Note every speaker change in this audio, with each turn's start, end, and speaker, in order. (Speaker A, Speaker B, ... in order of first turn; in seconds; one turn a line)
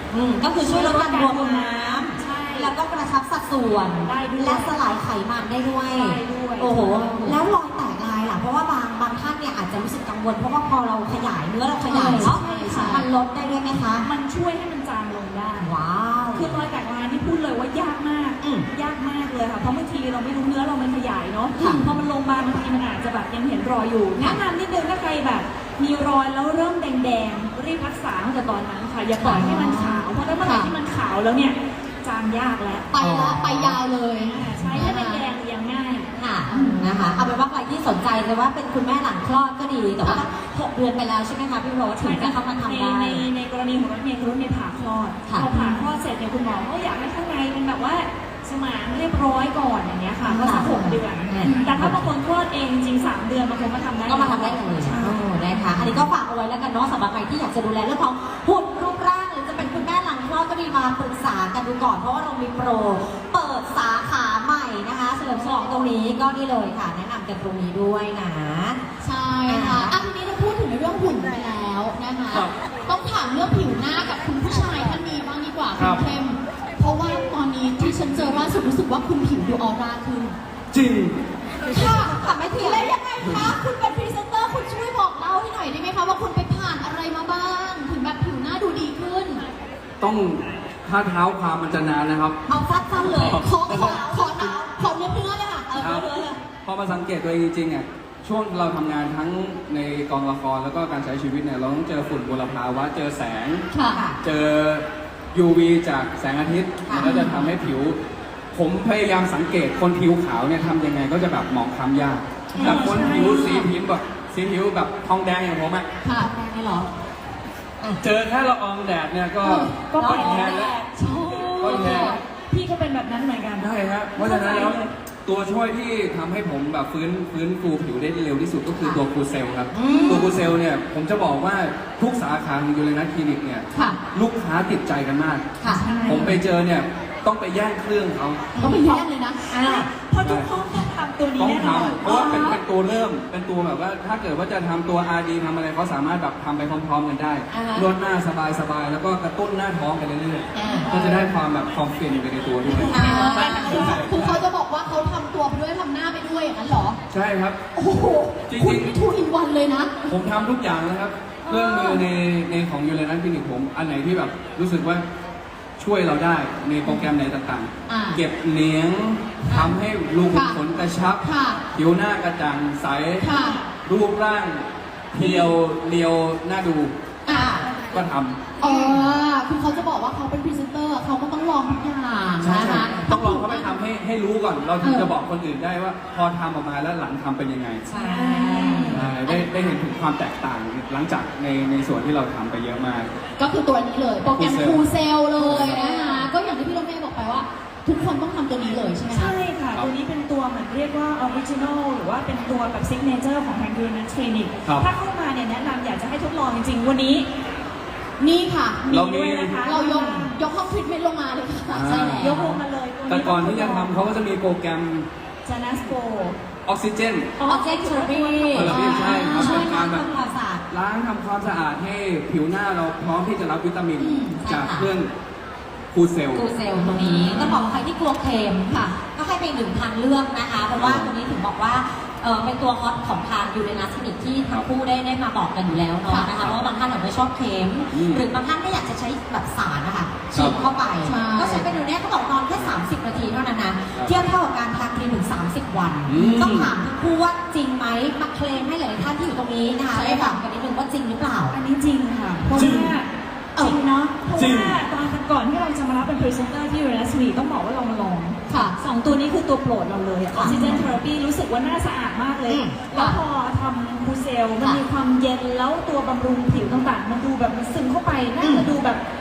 Speaker A: 0.1-14.1
Speaker B: 0.6-2.8
Speaker B: 4.0-4.8
Speaker B: 5.9-7.4
Speaker C: 6.9-7.2
Speaker B: 11.8-13.1
Speaker C: 11.9-13.0
Speaker B: 14.0-15.7
Speaker A: 15.6-16.6
Speaker B: 16.3-32.9
Speaker A: 18.4-18.7
Speaker A: 21.6-21.9
Speaker A: 29.2-29.6
Speaker C: 29.4-30.7
Speaker C: 32.9-35.2
Speaker A: 33.0-33.8
Speaker B: 34.2-36.1
Speaker A: 36.1-43.2
Speaker C: 36.5-36.8
Speaker B: 42.0-56.0
Speaker A: 45.3-45.5
Speaker C: 45.5-45.8
Speaker A: 50.2-52.1
Speaker A: 54.1-68.8
Speaker C: 69.0-80.4
Speaker A: 69.5-70.1
Speaker D: 75.8-76.0
Speaker D: 80.7-81.2
Speaker C: 81.7-89.4
Speaker A: 81.7-82.9
Speaker D: 83.3-83.5
Speaker D: 90.0-92.4
Speaker A: 92.5-95.1
Speaker D: 93.0-94.6
Speaker C: 93.0-95.9
Speaker A: 95.7-96.4
Speaker D: 95.8-103.7
Speaker C: 103.7-104.0
Speaker A: 103.9-104.2
Speaker D: 104.2-108.0
Speaker A: 106.9-107.2
Speaker C: 107.0-107.5
Speaker D: 108.5-115.9
Speaker A: 112.5-113.7
Speaker B: 112.6-113.5
Speaker C: 116.0-116.3
Speaker A: 116.1-116.9
Speaker D: 118.0-120.8
Speaker B: 119.4-124.9
Speaker A: 120.0-122.1
Speaker D: 121.5-122.2
Speaker C: 121.9-122.2
Speaker D: 123.6-135.5
Speaker A: 129.7-130.5
Speaker C: 129.9-130.2
Speaker C: 133.7-134.0
Speaker B: 135.7-136.4
Speaker D: 136.1-138.6
Speaker A: 138.5-139.9
Speaker C: 138.6-139.4
Speaker B: 139.5-142.6
Speaker D: 140.2-140.5
Speaker D: 141.4-154.4
Speaker C: 147.5-147.8
Speaker A: 150.5-150.9
Speaker C: 150.7-151.3
Speaker B: 152.7-153.8
Speaker C: 152.8-157.0
Speaker A: 152.9-153.6
Speaker D: 157.1-157.6
Speaker C: 157.8-160.2
Speaker D: 158.5-159.0
Speaker D: 160.1-165.1
Speaker B: 161.5-161.8
Speaker D: 165.8-171.2
Speaker C: 166.8-167.1
Speaker C: 167.9-168.2
Speaker C: 169.4-169.8
Speaker C: 170.3-170.6
Speaker C: 171.2-171.6
Speaker D: 171.7-173.3
Speaker C: 173.2-173.6
Speaker B: 173.3-173.7
Speaker D: 173.8-176.9
Speaker C: 175.2-175.5
Speaker C: 177.3-177.6
Speaker A: 177.3-177.7
Speaker D: 177.9-178.6
Speaker C: 178.6-183.8
Speaker A: 178.6-179.1
Speaker D: 182.4-187.9
Speaker A: 182.5-183.0
Speaker C: 184.8-185.1
Speaker A: 187.9-189.1
Speaker B: 188.0-189.1
Speaker D: 188.9-193.1
Speaker C: 189.1-189.6
Speaker C: 193.4-199.3
Speaker D: 194.3-194.8
Speaker D: 195.4-195.8
Speaker B: 195.6-196.3
Speaker B: 199.1-207.3
Speaker C: 208.2-208.9
Speaker B: 208.8-210.3
Speaker D: 208.9-209.6
Speaker C: 209.6-212.4
Speaker D: 211.7-215.1
Speaker B: 212.0-213.9
Speaker B: 215.4-216.4
Speaker D: 216.7-217.3
Speaker B: 217.4-218.9
Speaker A: 217.4-220.6
Speaker D: 218.5-220.1
Speaker C: 218.6-219.8
Speaker D: 220.7-225.1
Speaker C: 224.0-224.4
Speaker A: 224.4-224.9
Speaker D: 225.9-227.6
Speaker A: 226.3-251.6
Speaker C: 226.8-227.8
Speaker C: 228.7-229.0
Speaker D: 230.8-231.1
Speaker C: 236.1-236.3
Speaker D: 236.3-236.6
Speaker D: 237.9-238.2
Speaker D: 240.3-240.6
Speaker C: 241.0-241.7
Speaker D: 243.9-244.3
Speaker D: 246.1-246.7
Speaker C: 249.9-250.4
Speaker B: 251.5-269.0
Speaker D: 252.5-252.9
Speaker D: 254.3-254.8
Speaker C: 258.5-258.8
Speaker A: 260.3-260.9
Speaker A: 262.5-263.2
Speaker A: 268.4-268.7